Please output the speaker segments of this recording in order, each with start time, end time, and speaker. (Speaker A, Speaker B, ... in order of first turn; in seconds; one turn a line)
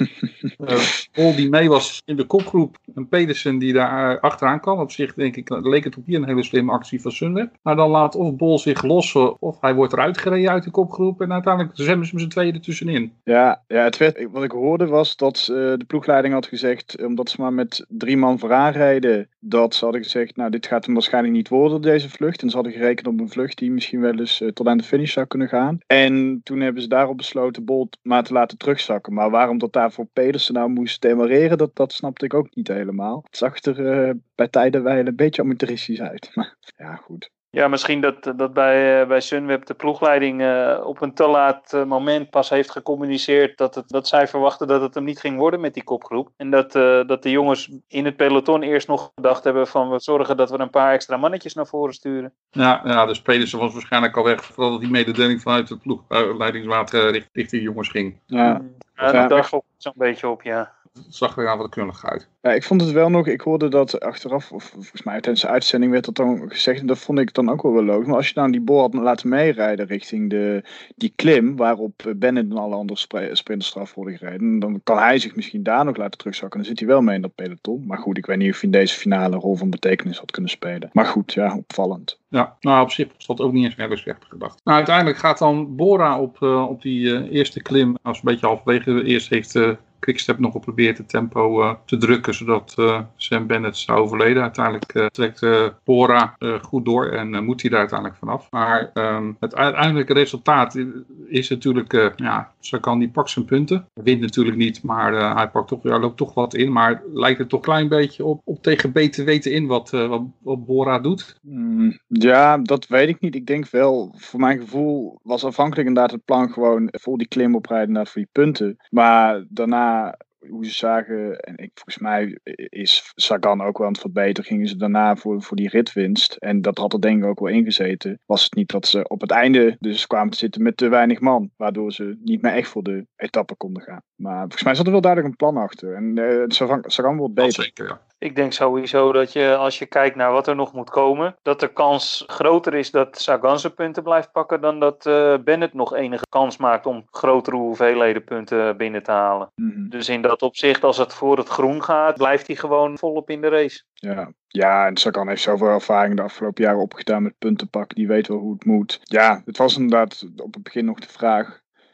Speaker A: 0.6-13.1
Speaker B: 13.3-37.3
Speaker C: 37.5-52.3
Speaker A: 52.5-58.2
Speaker B: 58.3-59.4
Speaker C: 58.4-60.7
Speaker A: 61.0-62.2
Speaker B: 62.4-82.2
Speaker A: 82.3-111.3
Speaker B: 111.5-137.7
Speaker A: 137.4-138.0
Speaker C: 138.2-153.8
Speaker B: 149.6-149.9
Speaker B: 154.0-161.6